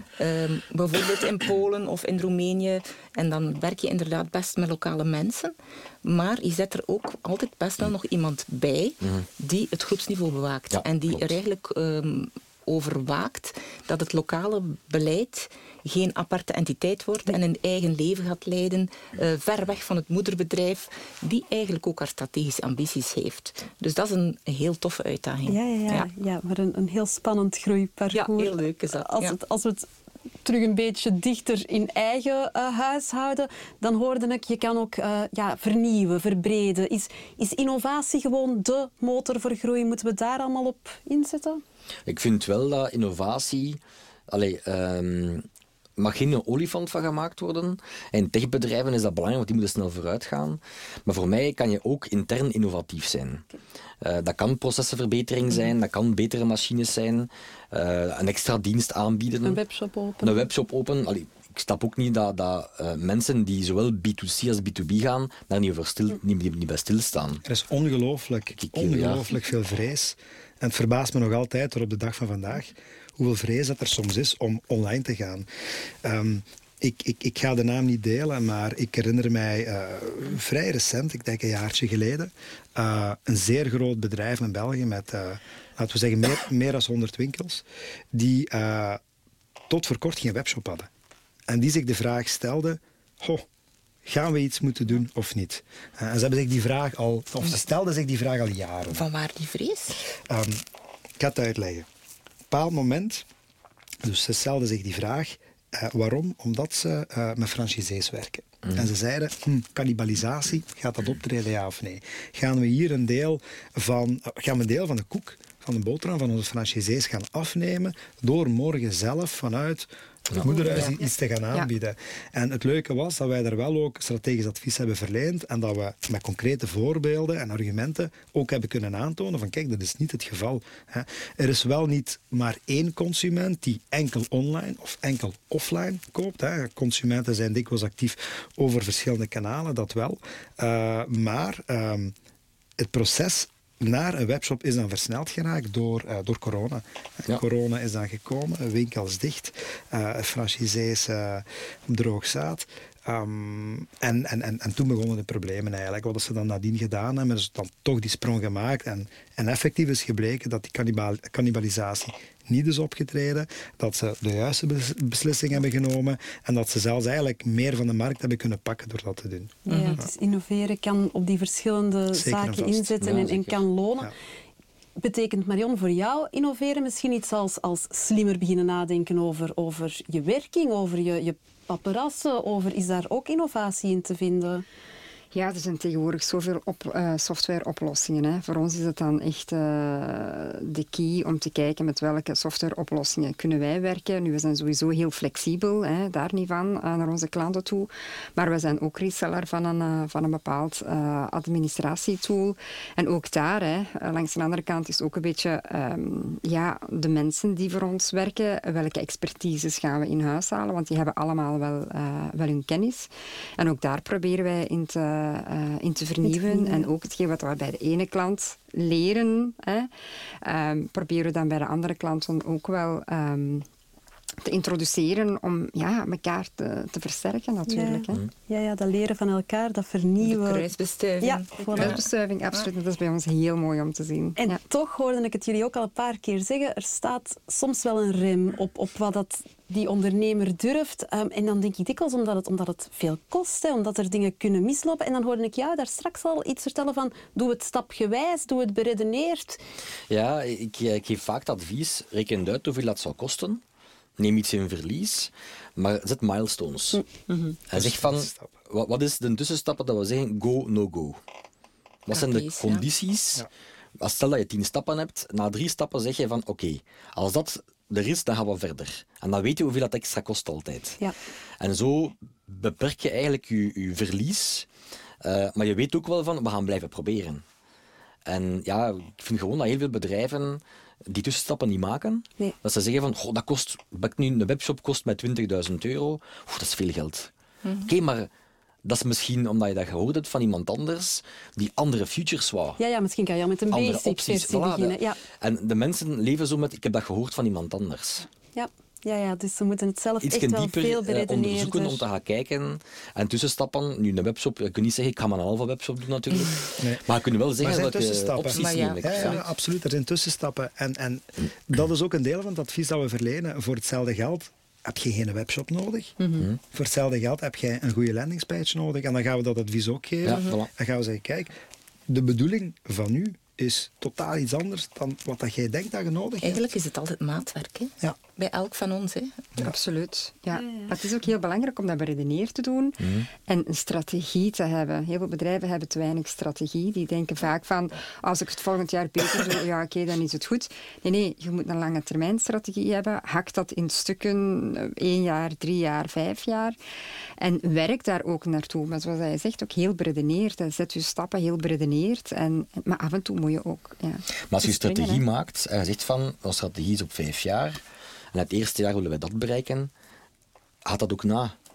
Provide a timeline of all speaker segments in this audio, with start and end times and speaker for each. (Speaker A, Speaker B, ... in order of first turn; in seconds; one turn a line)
Speaker A: 0.2-26.1
Speaker B: 9.0-9.3
Speaker B: 10.7-11.3
Speaker C: 25.4-29.9
Speaker A: 28.1-29.4
Speaker C: 30.4-41.6
Speaker B: 42.1-45.5
Speaker B: 46.0-53.5
Speaker B: 54.0-59.6
Speaker C: 59.4-60.5
Speaker B: 60.2-67.4
Speaker D: 67.5-75.5
Speaker B: 68.6-69.3
Speaker D: 76.0-89.0
Speaker D: 89.7-90.9
Speaker D: 91.5-93.4
Speaker D: 94.0-99.1
Speaker A: 98.9-100.0
Speaker D: 100.2-100.6
Speaker D: 101.2-101.9
Speaker D: 102.5-103.2
Speaker D: 104.0-142.1
Speaker E: 120.6-121.7
Speaker D: 142.8-169.6
Speaker C: 169.7-174.1
Speaker A: 169.7-170.0
Speaker D: 172.1-173.1
Speaker B: 173.0-173.7
Speaker C: 175.0-184.7
Speaker E: 185.3-219.9
Speaker C: 216.2-216.9
Speaker E: 220.4-223.7
Speaker E: 224.4-228.2
Speaker C: 227.7-230.7
Speaker A: 230.2-232.7
Speaker C: 231.2-232.0
Speaker E: 231.8-234.6
Speaker C: 234.4-249.6
Speaker B: 250.1-253.6
Speaker B: 254.2-257.0
Speaker C: 256.9-257.6
Speaker B: 257.7-261.2
Speaker D: 257.7-258.5
Speaker B: 262.1-263.5
Speaker A: 262.1-262.9
Speaker B: 264.0-271.0
Speaker B: 271.6-274.7
Speaker B: 275.2-277.4
Speaker B: 278.3-287.3
Speaker A: 287.6-287.9
Speaker B: 287.9-288.3
Speaker B: 288.9-292.8
Speaker C: 292.8-295.2
Speaker B: 293.7-298.3
Speaker C: 298.6-302.0
Speaker B: 300.2-309.4
Speaker D: 307.6-316.2
Speaker A: 308.4-309.4
Speaker D: 316.7-321.5
Speaker B: 320.2-320.7
Speaker D: 322.1-326.7
Speaker A: 326.4-329.4
Speaker E: 329.6-346.8
Speaker C: 330.6-330.9
Speaker B: 333.0-333.3
Speaker E: 347.4-355.2
Speaker B: 354.5-357.8
Speaker B: 358.3-359.9
Speaker B: 360.9-361.6